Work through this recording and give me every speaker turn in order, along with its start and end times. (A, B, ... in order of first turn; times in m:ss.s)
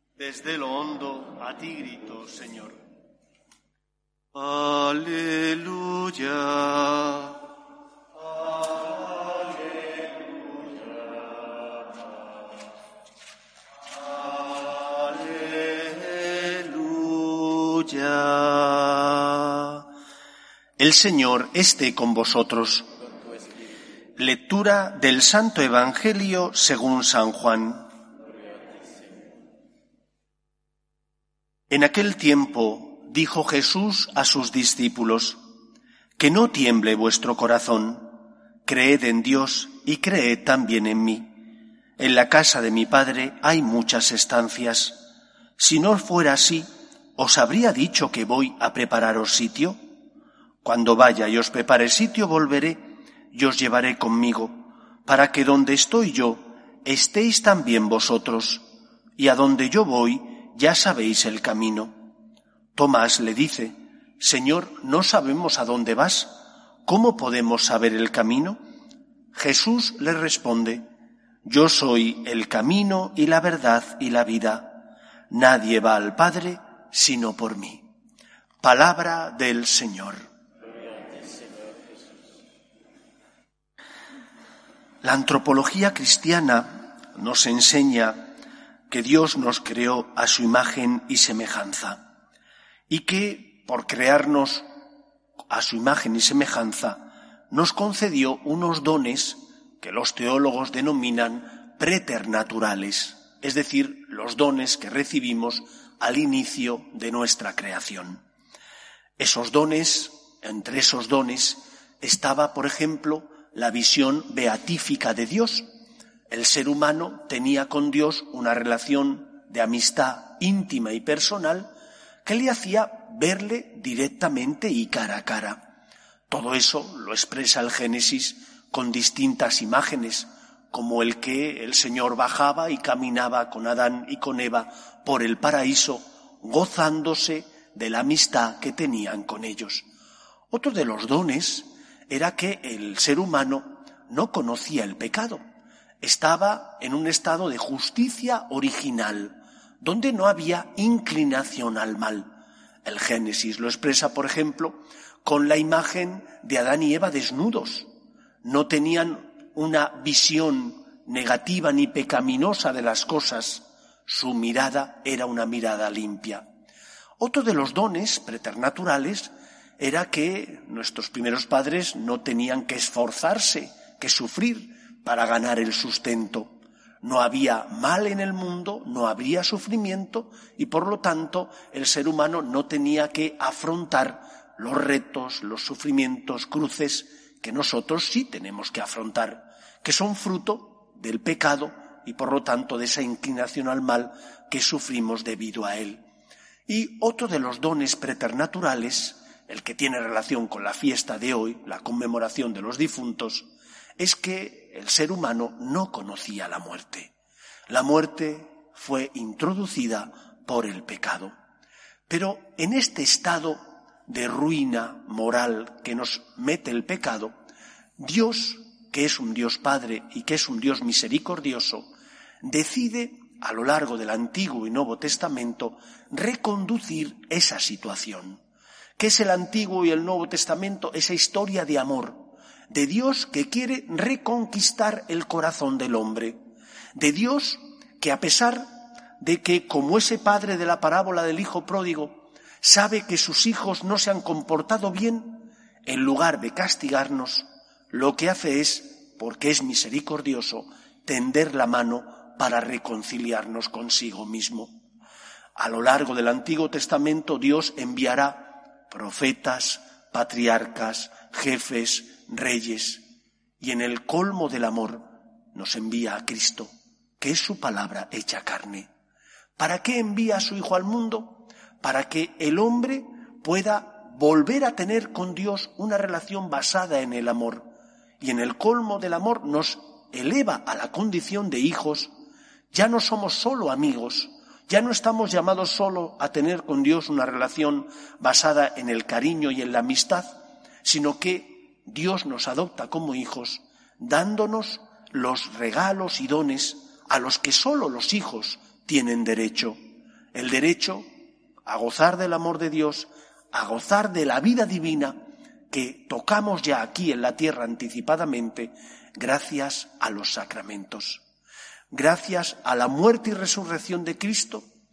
0:00.2-0:02.8 A
0:04.3-0:07.4 A
0:08.6-0:10.4 A
0:14.5-0:19.8 A
0:20.8-0:22.9 A
0:24.2-0:27.9 A
0:31.7-0:35.4 A
0:36.2-0:41.4 A
0:42.0-0:49.8 A
0:50.6-1:02.1 A
1:02.7-1:08.6 A
1:09.3-1:10.8 A
1:11.4-1:17.9 A
1:18.6-1:20.2 A
1:25.0-1:28.3 A
1:28.9-1:32.0 A
1:32.9-1:34.7 A
1:35.5-1:48.2 A
1:49.2-1:55.7 A
1:56.3-2:01.7 A
2:02.2-2:05.7 A
2:06.3-2:19.8 A
2:20.5-2:25.4 A
2:26.0-2:32.3 A
2:32.8-2:37.9 A
2:38.4-2:46.5 A
2:47.2-3:16.0 A
3:16.7-3:27.1 A
3:27.7-3:31.3 A
3:32.1-3:37.3 A
3:38.0-3:41.9 A
3:42.4-3:48.4 A
3:49.0-3:56.4 A
3:56.9-4:14.7 A
4:15.6-4:23.0 A
4:23.6-4:28.9 A
4:29.6-4:37.7 A
4:38.2-4:42.1 A
4:42.7-4:59.8 A
5:00.3-5:01.1 A
5:01.6-5:11.2 A
5:11.9-5:14.6 A